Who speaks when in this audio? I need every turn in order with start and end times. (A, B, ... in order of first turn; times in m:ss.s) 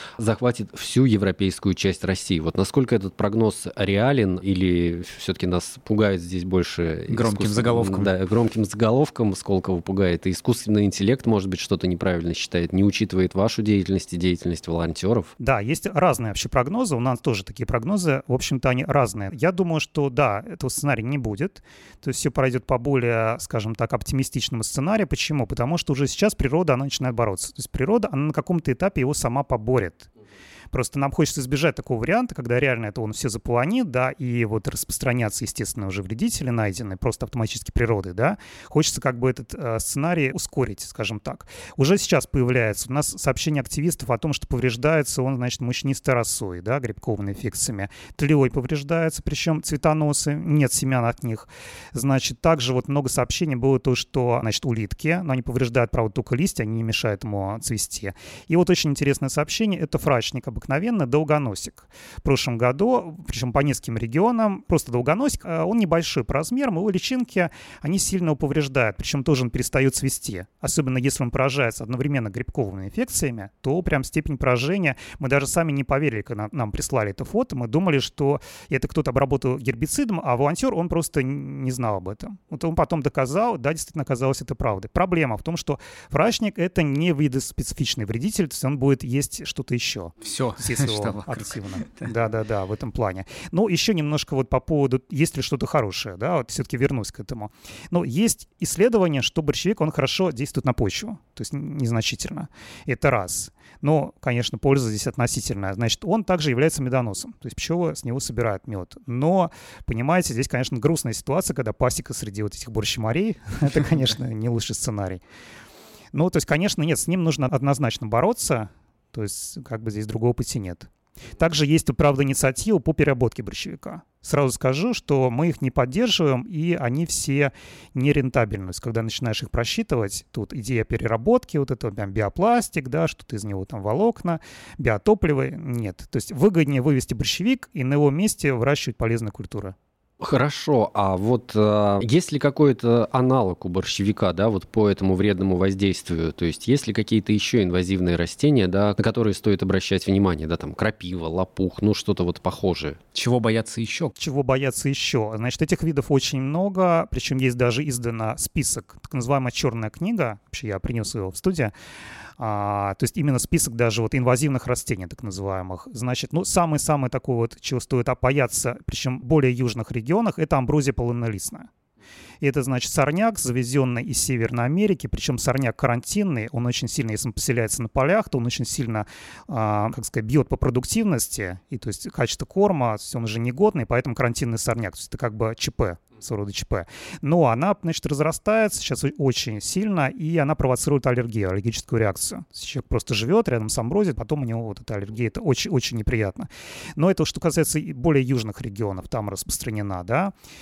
0:00.2-0:15.3 A
0:07.1-0:08.1 B
0:15.4-0:30.1 C
0:30.7-1:55.2 C
1:30.2-1:31.6 B
1:56.1-2:19.7 C
2:20.2-2:33.0 A
2:33.1-2:34.1 B
2:34.2-2:41.7 C
2:42.4-2:51.7 C
2:52.4-3:20.3 C